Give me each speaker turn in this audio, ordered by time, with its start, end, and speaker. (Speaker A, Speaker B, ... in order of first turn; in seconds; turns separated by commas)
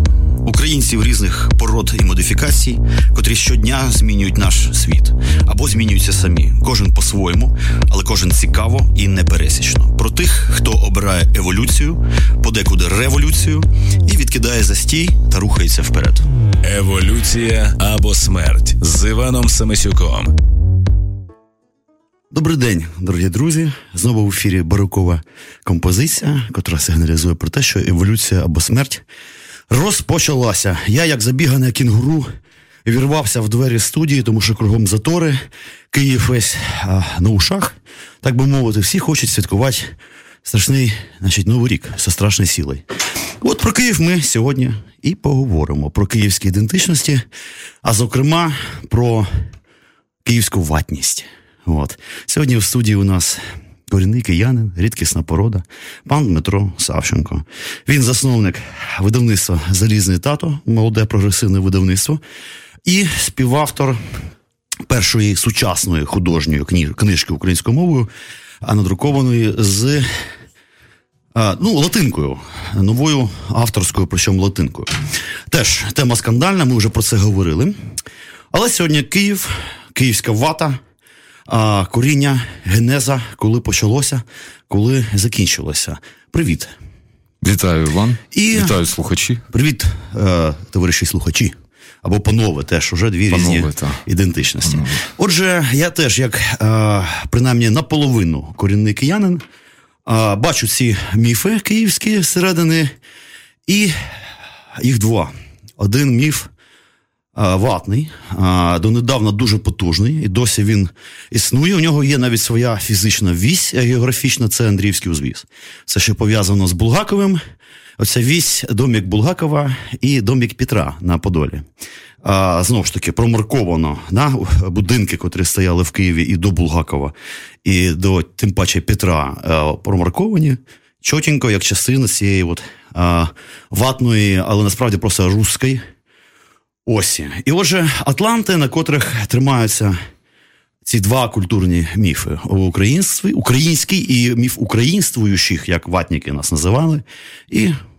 Speaker A: 0.4-16.2, Speaker B: 16.6-20.3, Speaker A: 22.3-29.0, Speaker A: 29.7-32.3, Speaker A: 32.9-35.4, Speaker A: 35.9-39.9, Speaker A: 40.4-42.8, Speaker A: 43.4-47.2, Speaker A: 47.8-49.3, Speaker A: 50.2-62.2, Speaker A: 62.9-64.0, Speaker A: 64.9-68.1, Speaker A: 68.6-70.1, Speaker A: 71.3-74.9, Speaker A: 75.5-77.8, Speaker A: 78.5-80.8, Speaker A: 81.5-86.7, Speaker C: 87.4-89.4, Speaker A: 88.3-88.8, Speaker A: 89.5-99.4, Speaker C: 93.3-94.0, Speaker C: 94.6-95.0, Speaker A: 100.0-102.9, Speaker A: 103.7-104.0, Speaker A: 104.8-106.5, Speaker A: 107.3-117.4, Speaker A: 118.0-121.6, Speaker A: 122.2-135.8, Speaker A: 136.8-140.0, Speaker A: 140.8-147.8